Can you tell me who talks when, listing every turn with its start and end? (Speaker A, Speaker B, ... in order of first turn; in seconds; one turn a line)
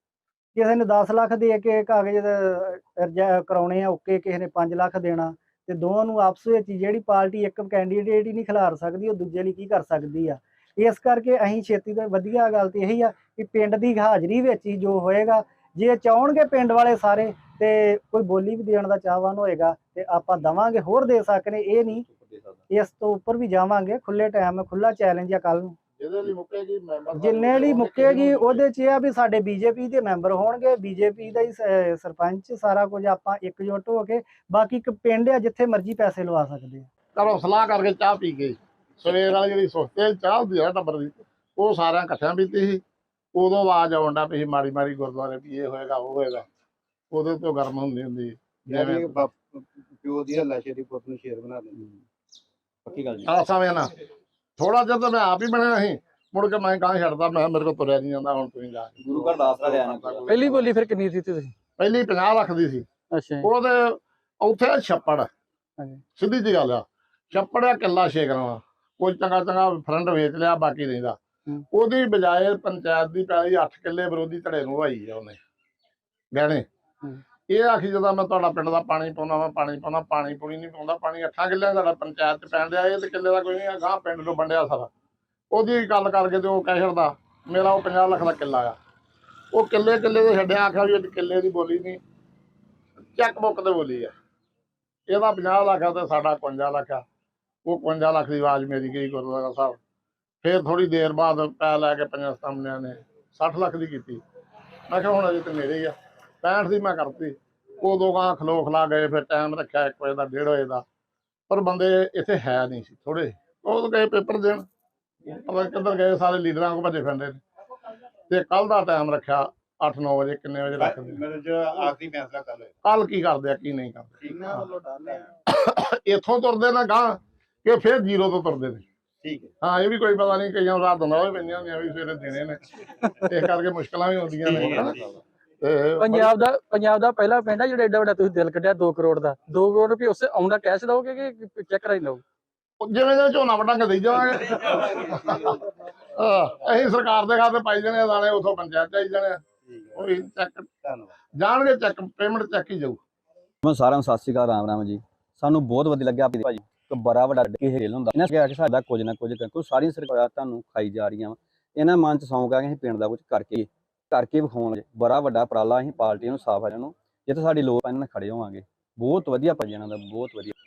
Speaker A: 0.5-22.1
Speaker A: 22.7-25.8
Speaker B: 26.0-28.6
Speaker A: 27.2-36.9
Speaker B: 37.1-42.8
Speaker B: 43.3-46.5
Speaker B: 47.1-49.2
Speaker C: 48.7-52.0
Speaker D: 52.9-53.3
Speaker B: 53.2-53.9
Speaker B: 54.6-59.1
Speaker D: 59.0-60.5
Speaker C: 59.1-60.6
Speaker E: 60.3-61.5
Speaker B: 61.8-62.9
Speaker E: 63.1-63.5
Speaker B: 63.4-65.3
Speaker B: 66.2-71.2
Speaker B: 71.7-75.4
Speaker B: 76.3-76.6
Speaker B: 77.5-84.9
Speaker B: 85.5-88.8
Speaker B: 89.5-92.0
Speaker B: 93.1-94.1
Speaker B: 95.1-97.0
Speaker B: 97.6-99.8
Speaker B: 100.4-104.2
Speaker B: 104.9-110.8
Speaker B: 111.5-114.7
Speaker B: 115.2-117.4
Speaker B: 118.3-121.2
Speaker C: 120.8-122.8
Speaker B: 122.8-124.2
Speaker C: 124.2-125.3
Speaker B: 125.5-128.8
Speaker C: 129.2-129.5
Speaker B: 129.6-132.6
Speaker B: 133.3-135.0
Speaker C: 134.4-135.2
Speaker B: 135.6-136.3
Speaker E: 136.0-142.2
Speaker B: 142.8-145.4
Speaker B: 146.2-149.4
Speaker C: 149.6-151.2
Speaker B: 149.9-150.7
Speaker B: 151.3-153.0
Speaker D: 153.6-170.5